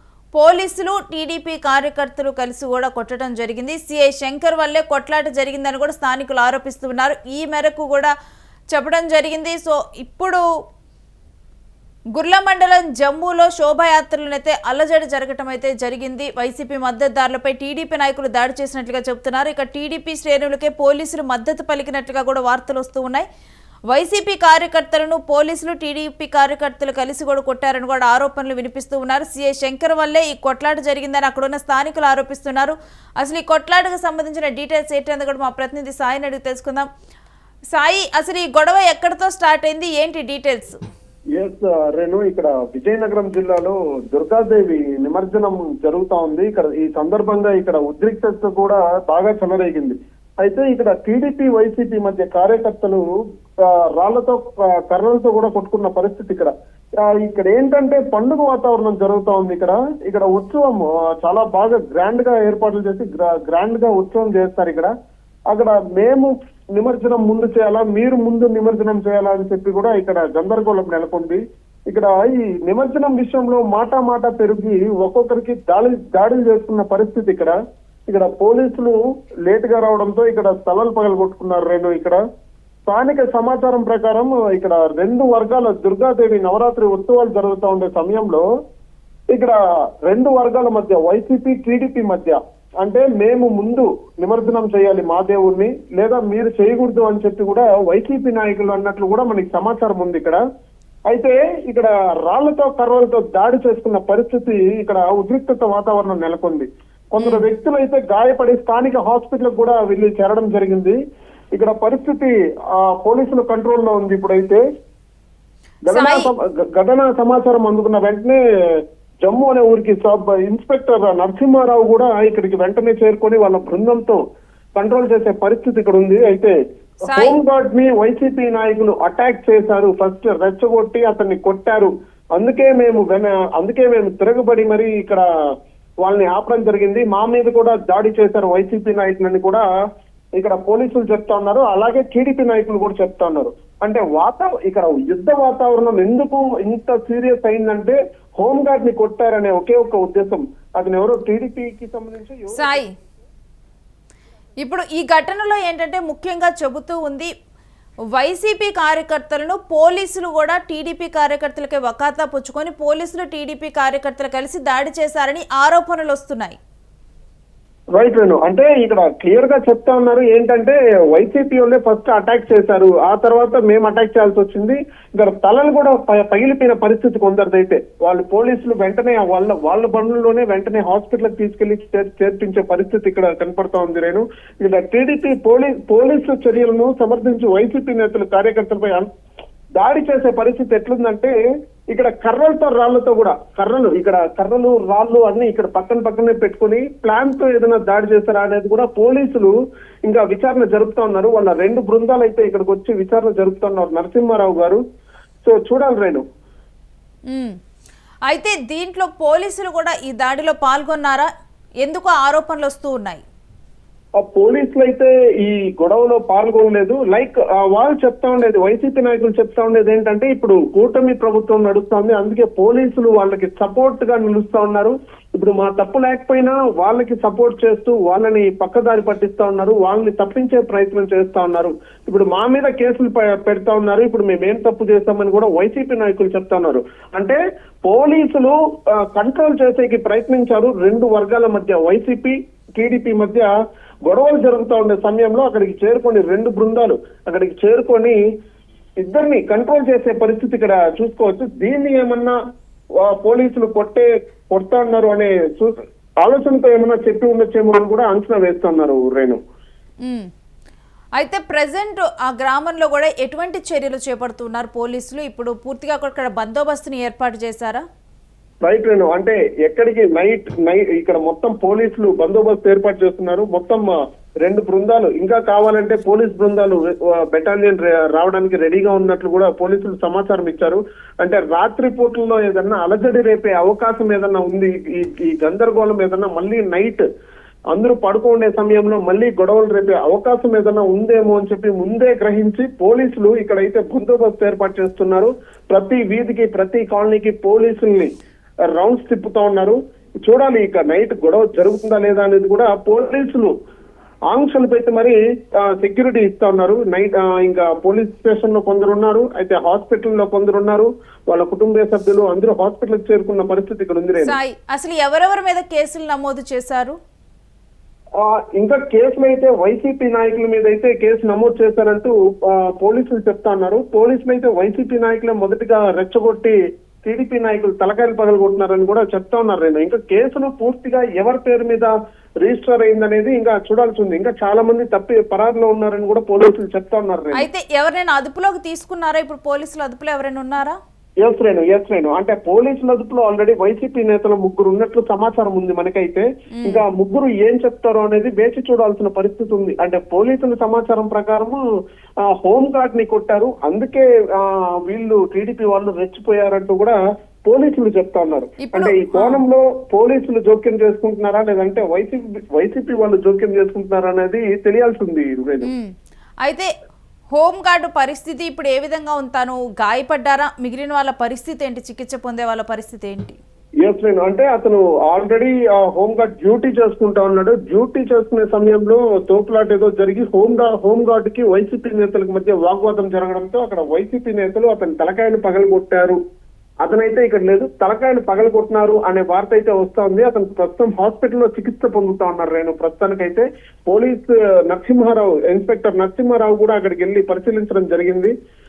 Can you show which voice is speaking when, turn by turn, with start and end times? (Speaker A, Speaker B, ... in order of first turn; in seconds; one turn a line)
Speaker A: 0.3-8.1
Speaker A: 8.7-10.4
Speaker A: 12.2-23.3
Speaker A: 23.9-36.9
Speaker A: 37.7-40.8
Speaker B: 41.4-53.0
Speaker B: 53.6-64.9
Speaker B: 65.5-77.6
Speaker B: 78.1-82.2
Speaker B: 82.9-88.5
Speaker B: 89.3-100.4
Speaker B: 101.1-111.0
Speaker A: 107.2-107.5
Speaker B: 111.6-114.6
Speaker B: 115.9-124.2
Speaker A: 115.9-116.3
Speaker B: 124.8-126.6
Speaker A: 127.1-127.4
Speaker B: 127.1-135.2
Speaker B: 136.0-139.6
Speaker B: 140.4-152.8
Speaker A: 152.5-152.9
Speaker A: 154.6-157.3
Speaker A: 158.2-166.6
Speaker B: 168.0-189.1
Speaker B: 189.8-191.3
Speaker B: 191.9-199.5
Speaker B: 200.1-204.8
Speaker B: 205.4-206.2
Speaker A: 207.3-207.6
Speaker A: 208.3-211.3
Speaker A: 211.8-213.2
Speaker B: 214.2-238.6
Speaker B: 239.1-243.5
Speaker B: 244.1-248.2
Speaker B: 249.0-252.3
Speaker B: 253.0-259.4
Speaker A: 260.0-260.3
Speaker A: 261.2-267.8
Speaker B: 268.6-273.9
Speaker B: 274.4-287.1
Speaker B: 287.7-298.1
Speaker B: 298.7-303.5
Speaker B: 304.3-314.4
Speaker A: 314.2-317.0
Speaker B: 318.2-337.5
Speaker A: 337.4-340.8
Speaker B: 341.2-351.6
Speaker A: 346.6-346.8
Speaker B: 352.2-365.7
Speaker A: 358.6-359.4
Speaker A: 365.6-366.7
Speaker A: 367.3-373.4
Speaker B: 373.8-386.2
Speaker B: 386.9-398.3